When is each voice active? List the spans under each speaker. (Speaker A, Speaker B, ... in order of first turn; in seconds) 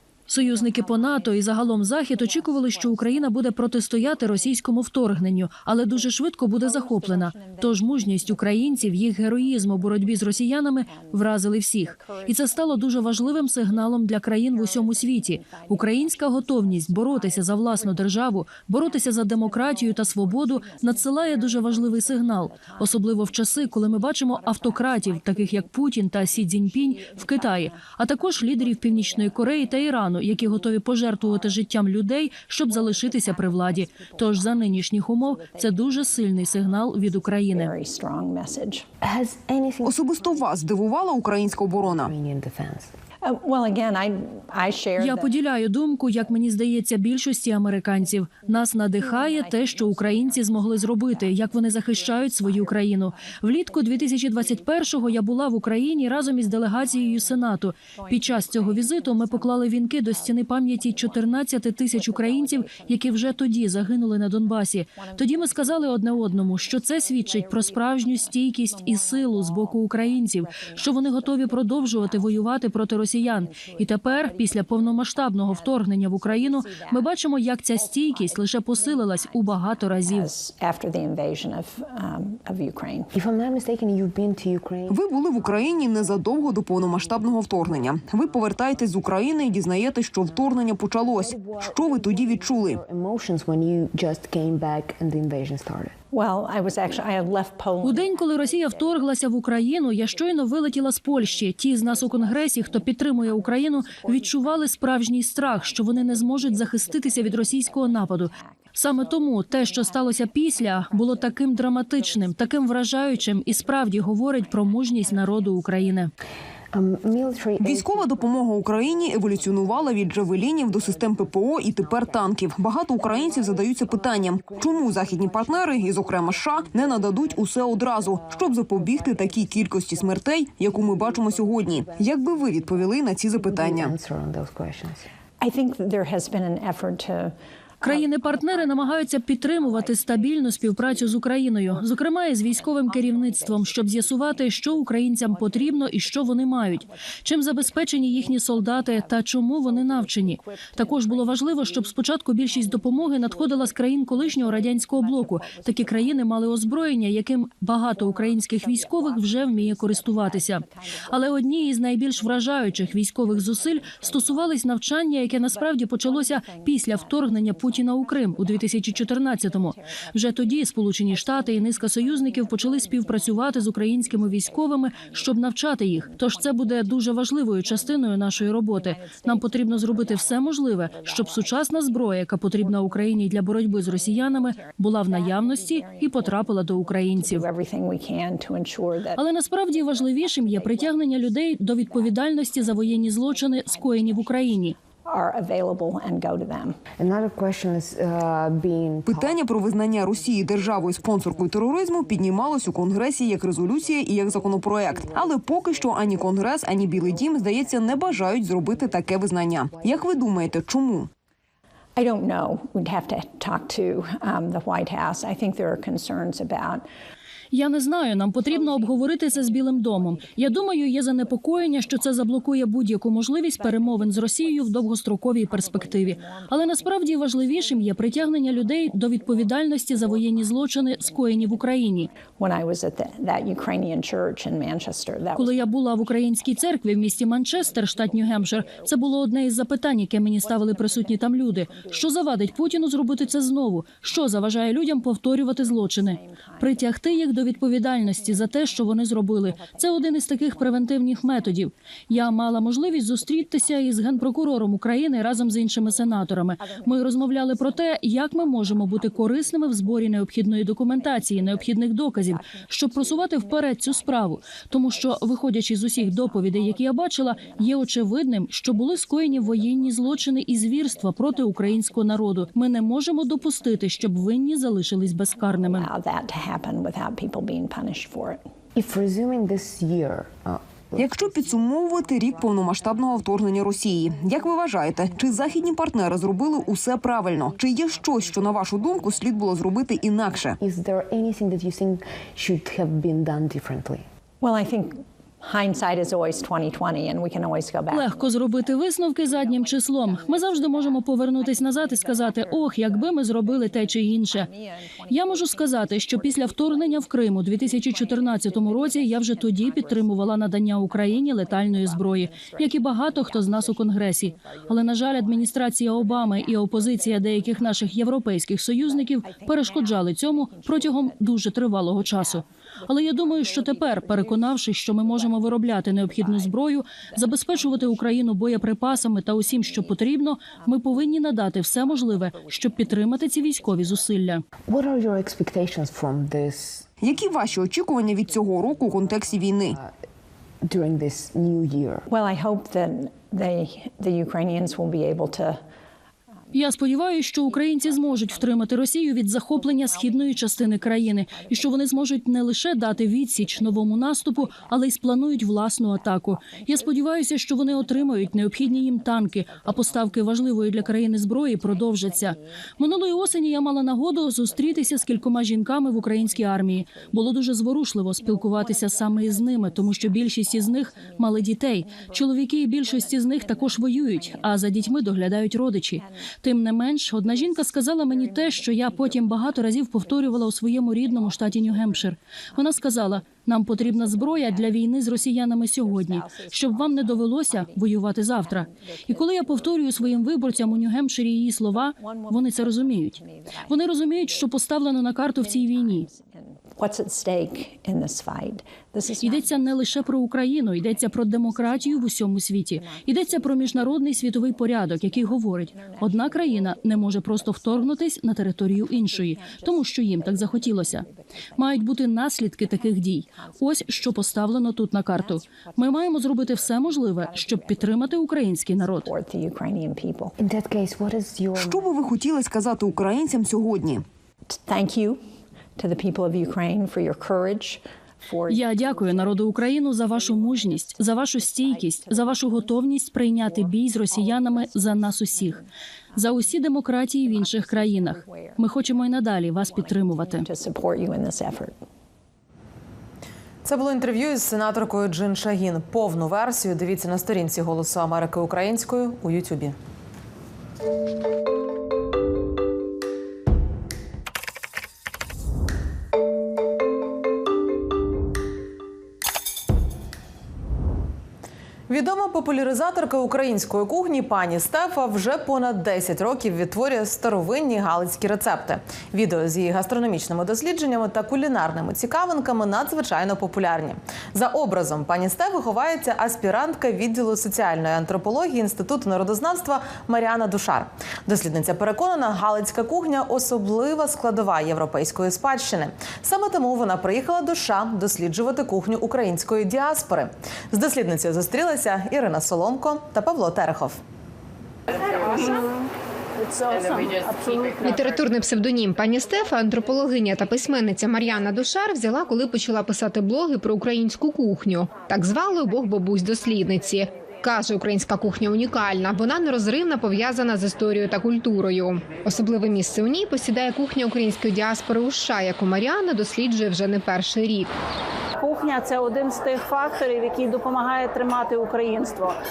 Speaker A: 0.3-37.8, 45.0-80.3, 97.8-116.1, 137.8-187.5, 189.2-194.8, 217.5-232.1, 235.4-275.9, 297.9-304.5, 305.1-334.4, 346.5-396.1, 399.2-419.1, 428.5-435.6, 436.2-440.5
Speaker B: 0.3-4.7, 5.6-31.7, 32.4-38.9, 40.1-41.6, 43.2-46.5, 47.8-83.1, 96.1-116.1, 135.4-157.1, 157.7-196.8, 212.0-216.9, 218.2-239.2, 240.3-278.4, 282.2-284.6, 285.1-290.3, 294.4-334.2, 337.1-339.5, 342.1-345.6, 346.5-376.3, 377.0-391.1, 391.7-414.4, 415.0-420.4, 424.5-425.2, 425.8-441.8
Speaker C: 39.0-40.4, 41.5-42.9, 83.1-95.9, 116.7-135.1, 197.0-210.6, 278.8-282.1, 290.6-294.1, 334.7-336.9, 339.2-339.9, 340.6-342.0, 420.4-421.9
Speaker D: 39.8-42.1, 84.9-92.8, 117.6-133.9, 199.1-211.1, 281.0-290.6, 337.0-339.8, 421.6-424.0
Speaker E: 443.6-449.8, 461.9-494.0
Speaker F: 495.0-497.9, 518.4-522.4
Speaker G: 497.8-517.7